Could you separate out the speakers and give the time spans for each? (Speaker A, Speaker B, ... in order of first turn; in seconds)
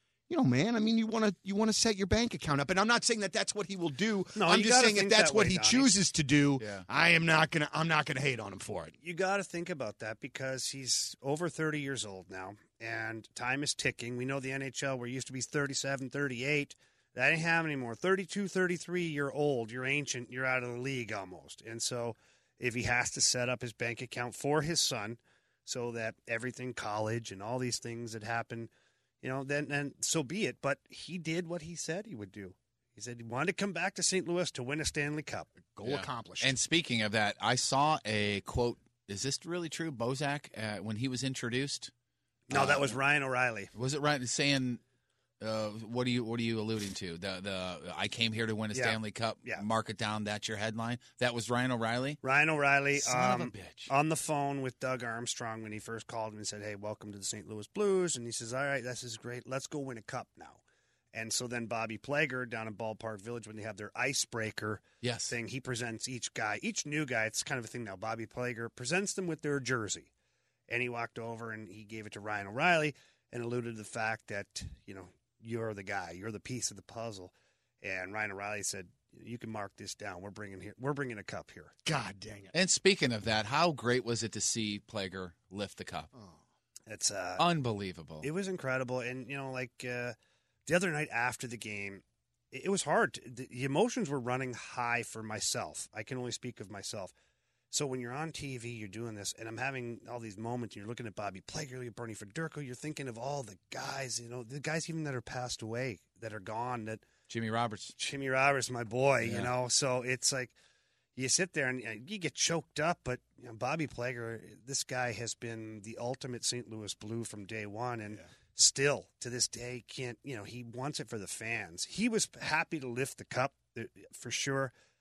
Speaker A: 0.3-8.9, 35.7-36.6, 81.8-82.5, 86.1-86.4
Speaker B: 4.3-5.9, 9.0-28.7, 29.2-35.5, 42.5-43.7, 48.7-49.6, 52.2-60.6, 61.1-70.1, 70.7-81.7, 86.9-87.4, 88.2-90.1, 90.7-97.1, 97.7-107.0, 108.0-110.5, 111.2-124.7
Speaker C: 6.6-6.8, 35.8-41.9, 42.5-43.0, 43.7-44.8, 45.4-52.2, 53.0-53.9, 65.0-65.3, 82.5-86.1, 87.4-88.2, 107.3-108.0, 109.2-109.5